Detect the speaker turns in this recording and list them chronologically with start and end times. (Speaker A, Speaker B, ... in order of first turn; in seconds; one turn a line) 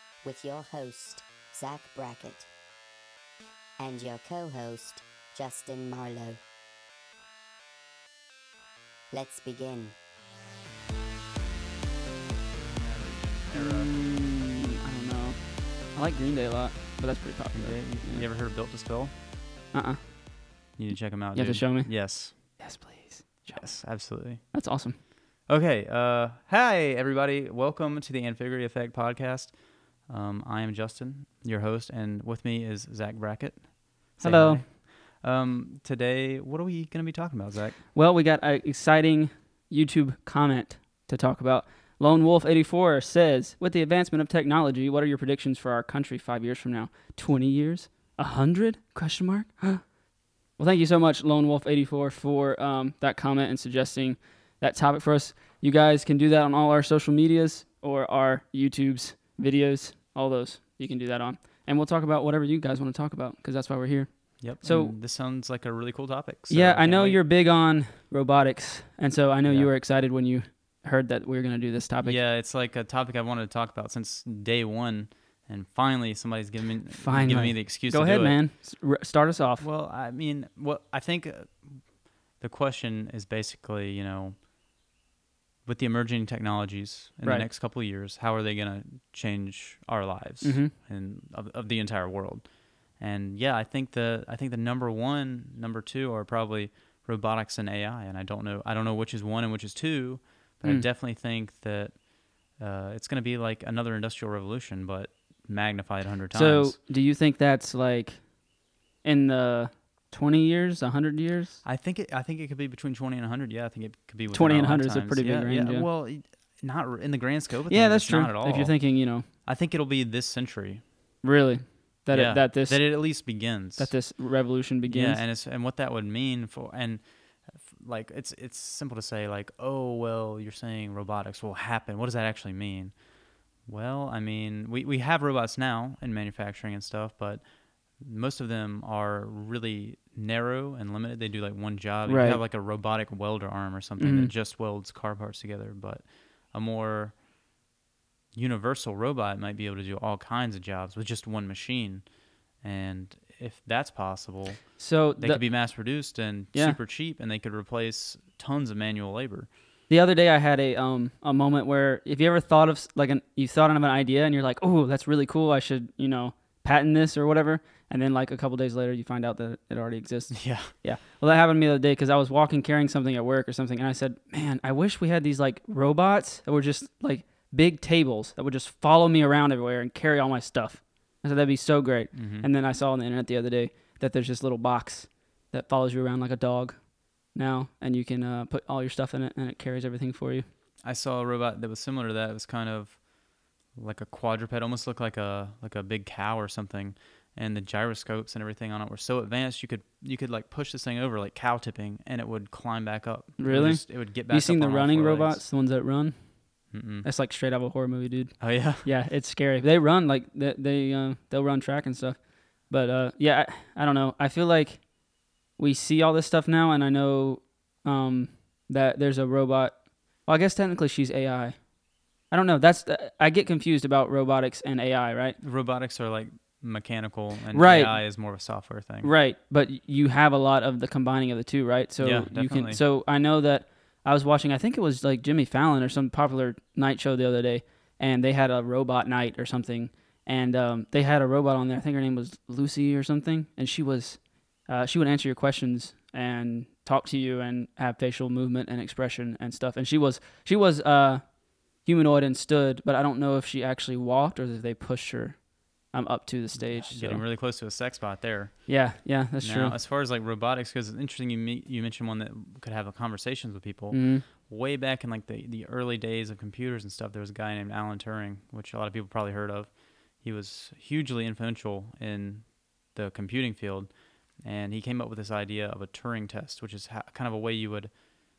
Speaker A: 0.2-2.5
Speaker A: 3.8-6.4
Speaker A: 9.1-9.9
Speaker B: 12.6-13.9
Speaker C: 13.5-15.4
Speaker C: 15.9-18.2
Speaker B: 17.5-19.1
Speaker C: 19.7-20.0
Speaker B: 20.8-22.6
Speaker C: 21.3-25.0
Speaker B: 23.5-24.4
Speaker B: 25.4-37.8
Speaker C: 34.2-34.6
Speaker C: 37.9-49.9
Speaker C: 50.6-64.9
Speaker B: 64.4-67.2
Speaker C: 66.5-72.2
Speaker B: 72.0-78.4
Speaker C: 76.9-79.7
Speaker B: 79.6-81.8
Speaker B: 82.4-84.4
Speaker B: 85.7-102.0
Speaker C: 90.4-90.7
Speaker B: 102.5-106.8
Speaker C: 106.3-108.2
Speaker C: 109.0-111.6
Speaker B: 111.6-120.8
Speaker C: 114.3-115.8
Speaker C: 117.7-119.3
Speaker C: 121.2-123.2
Speaker B: 122.1-124.0
Speaker C: 123.8-125.2
Speaker B: 124.9-132.9
Speaker B: 133.7-137.4
Speaker B: 138.0-147.2
Speaker C: 142.1-142.4
Speaker C: 144.0-144.3
Speaker B: 148.3-152.1
Speaker B: 152.6-159.5
Speaker C: 154.8-155.8
Speaker C: 156.5-156.8
Speaker C: 159.9-186.8
Speaker B: 170.3-170.7
Speaker B: 182.1-182.5
Speaker C: 187.3-190.4
Speaker B: 190.8-193.0
Speaker B: 193.7-205.4
Speaker C: 203.4-206.2
Speaker B: 206.7-207.1
Speaker C: 207.0-212.2
Speaker B: 208.4-208.9
Speaker C: 212.7-214.8
Speaker C: 215.6-221.6
Speaker C: 222.3-225.4
Speaker B: 225.4-229.1
Speaker C: 227.5-228.0
Speaker C: 229.0-251.2
Speaker B: 232.0-232.8
Speaker C: 251.8-255.4
Speaker C: 255.9-257.2
Speaker B: 256.5-277.9
Speaker C: 258.7-259.8
Speaker C: 263.9-264.2